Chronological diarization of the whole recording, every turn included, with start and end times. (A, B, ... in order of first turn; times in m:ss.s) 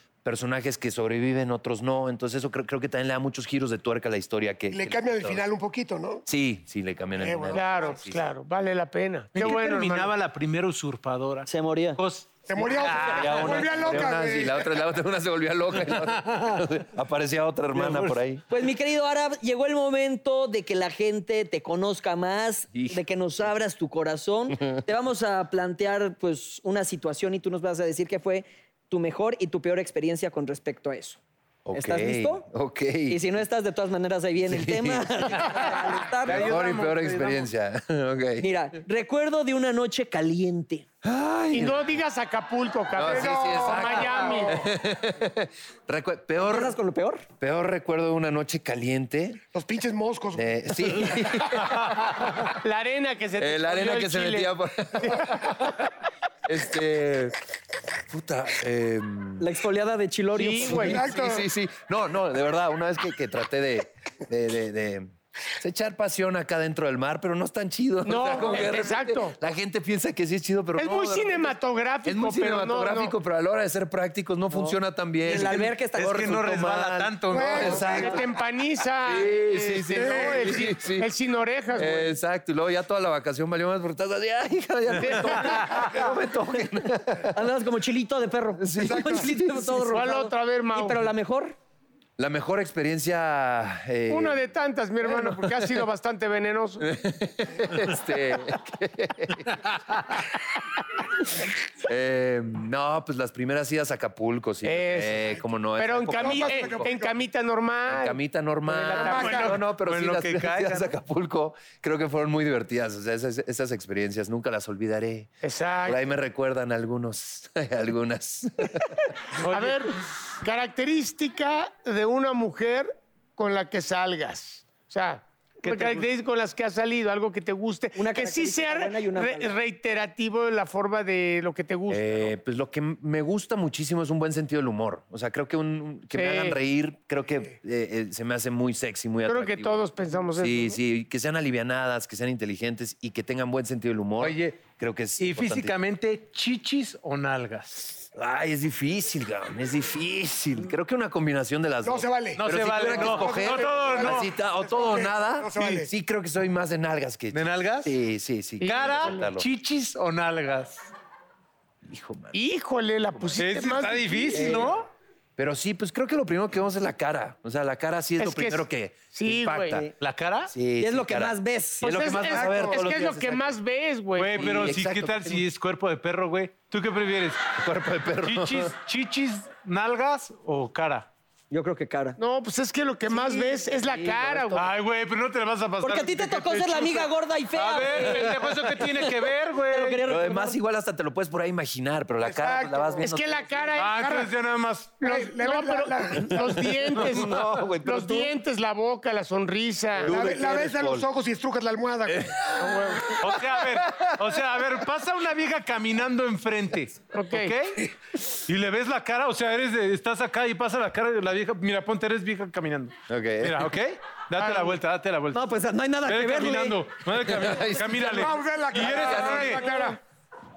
0:00.2-0:05.4 A
0:04.7-0:06.2 B
0:06.2-0:08.2 A
0:07.2-0:08.0 B
0:07.5-0:10.1 C
0:09.3-0:13.8 D
0:11.4-0:12.0 E
0:12.5-0:14.8 B
0:13.0-0:18.4 A
0:16.2-0:16.5 D
0:17.7-0:18.2 D
0:18.5-0:31.2 E
0:22.7-0:23.0 A
0:31.6-0:33.3 A
0:31.7-0:32.5 E
0:33.1-0:36.5 E
0:34.4-0:35.7 A
0:36.2-0:37.5 D
0:36.2-0:38.5 A
0:38.4-0:40.8 E
0:41.0-0:41.8 A
0:41.5-0:44.6 C
0:42.9-0:46.8 A
0:43.0-0:44.7 B
0:46.4-0:47.2 E
0:47.4-0:49.4 A
0:49.5-0:51.4 B
0:50.3-0:52.3 A
0:52.6-0:55.3 C
0:53.4-0:55.7 A
0:56.5-0:57.4 A
0:58.1-0:59.4 A
0:59.4-1:01.0 E
1:00.3-1:01.0 C
1:00.8-1:11.5 A
1:00.9-1:01.5 B
1:08.0-1:09.4 C
1:10.8-1:13.1 C
1:12.0-1:18.2 A
1:15.2-1:16.3 E
1:15.3-1:17.8 D
1:17.3-1:18.2 B
1:17.6-1:22.1 C
1:19.0-1:21.1 A
1:20.0-1:20.6 B
1:21.7-1:27.4 A
1:25.0-1:26.0 C
1:27.3-1:31.5 E
1:28.6-1:29.7 A
1:28.8-1:29.3 B
1:29.7-1:31.0 C
1:32.2-1:34.4 A
1:34.1-1:36.8 C
1:36.8-1:39.7 A
1:41.8-1:46.9 A
1:44.6-1:45.2 C
1:45.8-1:49.6 C
1:46.2-1:47.2 B
1:47.9-1:55.3 A
1:49.0-1:50.9 D
1:55.4-1:56.0 C
1:55.8-1:58.9 A
1:59.3-2:12.3 C
1:59.4-1:59.9 D
2:08.0-2:09.5 E
2:11.9-2:19.8 A
2:16.1-2:16.6 C
2:19.2-2:20.8 C
2:20.4-2:25.7 A
2:24.2-2:24.6 D
2:25.2-2:28.0 D
2:28.1-2:39.4 A
2:31.8-2:35.9 B
2:32.4-2:34.3 D
2:37.3-2:37.9 D
2:38.6-2:39.3 C
2:38.6-2:40.9 D
2:41.9-2:42.4 A
2:42.3-2:44.7 C
2:43.4-2:44.9 D
2:45.4-2:49.9 A
2:48.2-2:49.8 C
2:50.0-2:50.5 D
2:50.5-2:53.5 A
2:50.8-2:51.9 E
2:51.8-2:54.5 C
2:54.2-2:57.4 D
2:54.3-2:55.4 A
2:57.6-2:58.7 A
2:58.2-3:01.1 D
3:01.5-3:02.2 E
3:02.2-3:04.7 C
3:03.8-3:04.6 A
3:04.5-3:10.0 D
3:05.8-3:08.8 E
3:09.7-3:10.6 E
3:10.0-3:13.8 A
3:12.5-3:14.3 C
3:13.7-3:14.9 D
3:15.0-3:20.1 C
3:15.0-3:16.6 B
3:16.8-3:18.3 A
3:20.0-3:21.1 A
3:20.0-3:22.4 B
3:22.1-3:24.1 A
3:22.6-3:23.1 C
3:23.1-3:27.8 D
3:27.1-3:27.6 C
3:28.5-3:35.4 D
3:33.1-3:33.7 A
3:34.4-3:34.8 C
3:35.3-3:36.8 E
3:36.0-3:39.6 D
3:37.3-3:38.2 A
3:37.8-3:40.0 B
3:38.8-3:39.6 A